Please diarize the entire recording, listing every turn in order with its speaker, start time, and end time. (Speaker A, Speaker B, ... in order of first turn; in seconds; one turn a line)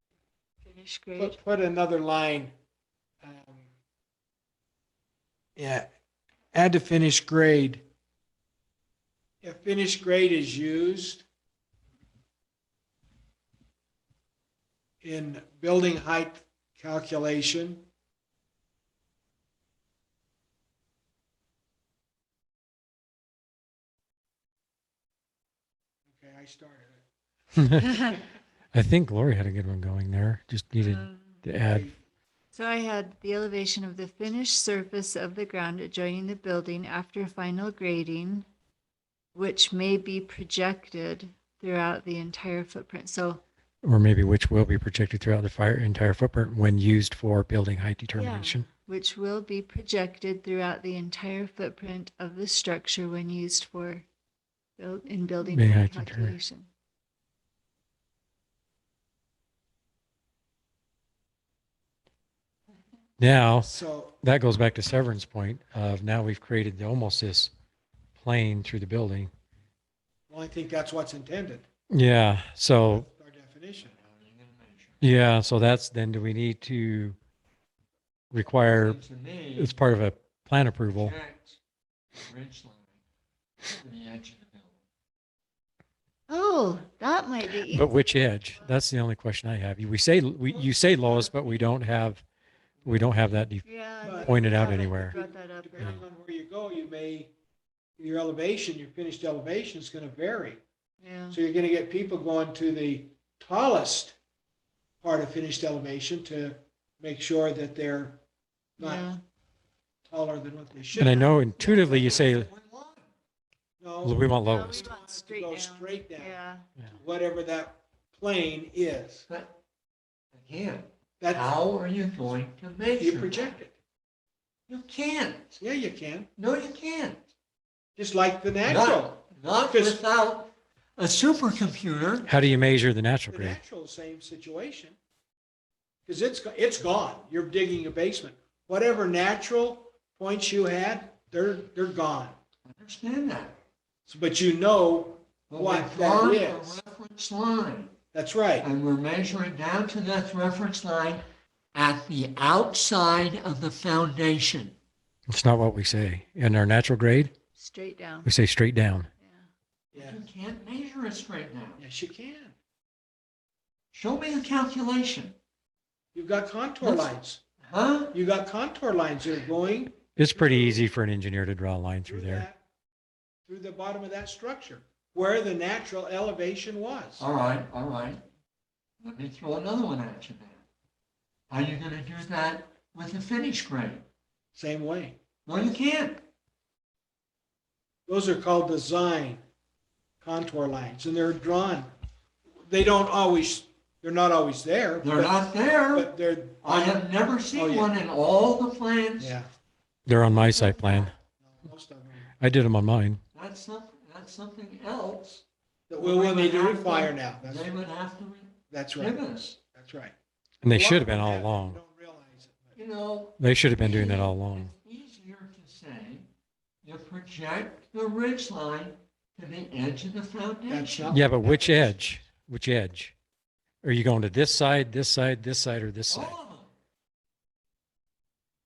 Speaker A: 0.6-1.4
Speaker B: 1.2-2.5
Speaker B: 3.2-3.7
Speaker B: 5.5-5.9
Speaker B: 6.5-7.8
Speaker B: 9.4-11.2
Speaker B: 15.0-17.9
Speaker B: 26.1-27.0
Speaker C: 27.6-27.9
Speaker C: 28.7-31.9
Speaker A: 30.8-31.4
Speaker A: 32.5-38.5
Speaker A: 39.3-43.4
Speaker C: 43.8-48.6
Speaker A: 48.1-54.1
Speaker A: 54.8-56.7
Speaker C: 55.5-56.4
Speaker C: 63.2-67.5
Speaker B: 63.6-64.2
Speaker C: 68.2-69.3
Speaker B: 70.3-71.7
Speaker C: 71.9-73.1
Speaker B: 72.8-74.0
Speaker D: 73.8-75.0
Speaker C: 75.0-77.2
Speaker C: 78.3-79.0
Speaker D: 78.5-79.8
Speaker C: 79.6-81.2
Speaker D: 80.9-81.6
Speaker D: 82.2-83.0
Speaker D: 83.8-84.8
Speaker A: 86.3-88.8
Speaker C: 87.7-92.2
Speaker B: 90.5-91.7
Speaker B: 92.8-93.1
Speaker C: 92.8-95.2
Speaker A: 93.6-96.0
Speaker B: 94.0-97.3
Speaker C: 95.8-96.0
Speaker B: 98.0-100.6
Speaker A: 101.0-101.4
Speaker B: 101.3-104.2
Speaker B: 105.0-108.2
Speaker B: 108.8-109.1
Speaker A: 108.8-109.2
Speaker B: 110.1-112.3
Speaker C: 110.9-112.5
Speaker D: 111.7-113.1
Speaker B: 113.8-116.4
Speaker C: 114.0-114.9
Speaker A: 114.4-116.7
Speaker B: 116.9-119.2
Speaker D: 119.3-119.6
Speaker D: 120.3-123.5
Speaker B: 121.2-121.5
Speaker B: 123.0-123.8
Speaker D: 124.7-125.6
Speaker B: 125.6-126.3
Speaker D: 126.4-127.2
Speaker B: 128.0-130.0
Speaker D: 128.7-132.3
Speaker C: 132.2-133.6
Speaker B: 133.3-134.9
Speaker B: 136.1-142.3
Speaker D: 142.7-143.6
Speaker B: 144.1-146.8
Speaker D: 145.5-147.9
Speaker B: 148.1-148.7
Speaker D: 148.6-154.7
Speaker C: 155.3-157.3
Speaker A: 157.6-158.3
Speaker C: 158.2-159.1
Speaker A: 159.2-159.5
Speaker B: 159.9-160.2
Speaker D: 159.9-161.8
Speaker B: 161.8-162.5
Speaker D: 163.9-165.3
Speaker B: 166.1-167.4
Speaker D: 166.8-167.1
Speaker D: 167.6-168.1
Speaker B: 168.1-170.8
Speaker C: 170.1-172.4
Speaker B: 172.0-172.6
Speaker B: 173.4-177.2
Speaker D: 177.2-178.2
Speaker D: 179.0-180.6
Speaker D: 181.5-184.0
Speaker B: 184.5-185.2
Speaker D: 185.4-186.2
Speaker B: 188.1-189.4
Speaker B: 190.2-191.9
Speaker B: 192.7-198.0
Speaker D: 195.0-196.1
Speaker D: 196.6-199.3
Speaker B: 199.2-199.5
Speaker C: 200.1-201.1
Speaker B: 200.6-202.3
Speaker C: 202.4-203.2
Speaker D: 203.3-205.4
Speaker B: 205.9-207.8
Speaker D: 206.0-209.6
Speaker B: 208.7-209.2
Speaker B: 209.7-212.8
Speaker C: 210.6-211.8
Speaker D: 212.7-216.3
Speaker C: 213.4-214.7
Speaker D: 216.8-221.2
Speaker B: 220.7-222.2
Speaker C: 221.1-223.1
Speaker C: 223.8-226.4
Speaker D: 226.1-226.7